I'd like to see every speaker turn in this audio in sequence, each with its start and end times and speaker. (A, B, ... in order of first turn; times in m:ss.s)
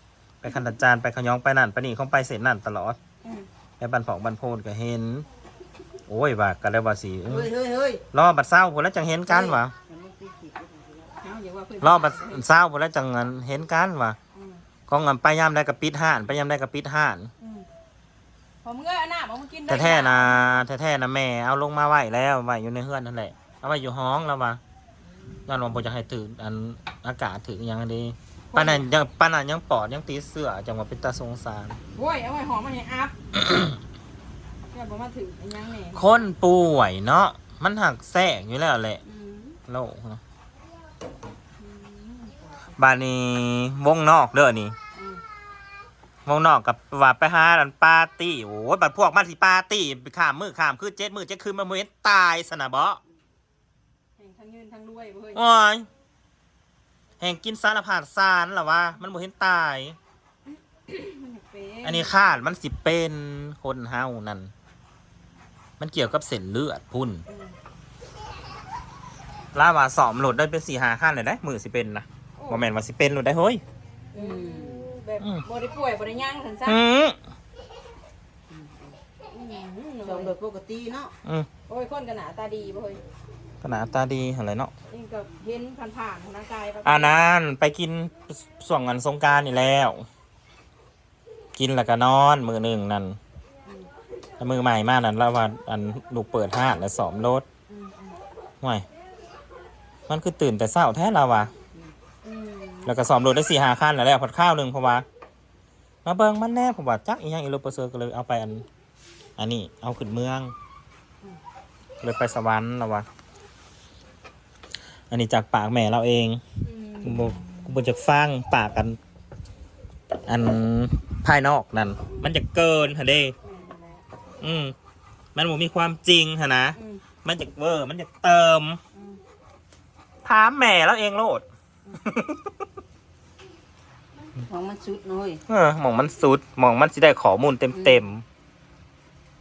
0:00.4-0:03.0 A
0:03.8-0:05.2 A
0:06.1-0:07.5 A
0:07.2-0:08.0 B
0:08.1-0:09.7 A
0:09.3-0:11.2 B
0:11.2-0:12.5 C
0:11.8-0:14.2 A
0:14.3-0:14.6 C
0:14.9-0:17.3 A
0:17.4-0:17.7 C
0:18.6-0:20.6 C
0:19.7-0:24.6 A
0:25.5-0:31.8 A
0:28.5-0:28.8 C
0:31.9-0:33.2 C
0:33.4-0:33.7 A
0:34.7-0:36.2 C
0:35.9-0:39.0 A
0:39.0-0:39.6 B
0:39.7-0:40.2 A
0:41.6-0:42.3 C
0:42.8-0:44.7 A
0:44.9-0:45.2 C
0:46.2-0:53.0 A
0:54.2-0:55.4 C
0:55.3-0:55.9 A
0:57.2-1:00.0 A
1:00.4-1:02.3 C
1:01.8-1:04.5 A
1:05.8-1:07.2 A
1:07.3-1:07.5 C
1:09.5-1:13.6 A
1:12.4-1:12.7 C
1:14.1-1:14.9 B
1:14.1-1:16.8 C
1:16.6-1:17.2 A
1:18.5-1:19.0 B
1:19.3-1:20.3 C
1:20.0-1:21.1 B
1:21.7-1:23.0 C
1:23.6-1:24.7 A
1:24.9-1:27.3 C
1:26.8-1:30.1 A
1:31.5-1:33.2 A
1:34.4-1:37.4 A
1:37.7-1:38.2 C
1:40.1-1:41.5 A
1:42.2-1:42.9 C
1:42.8-1:45.0 A
1:46.0-1:48.6 A
1:49.4-1:50.5 A
1:52.0-1:53.0 A
1:55.1-1:56.4 A
1:56.6-1:57.8 C
1:57.0-1:59.0 A
2:00.3-2:03.3 A
2:03.4-2:04.0 C
2:04.4-2:04.7 A
2:05.3-2:08.8 A
2:06.7-2:07.0 C
2:08.9-2:09.2 C
2:10.2-2:11.4 A
2:12.0-2:12.6 A
2:14.4-2:15.4 B
2:15.5-2:18.2 A
2:17.7-2:18.0 B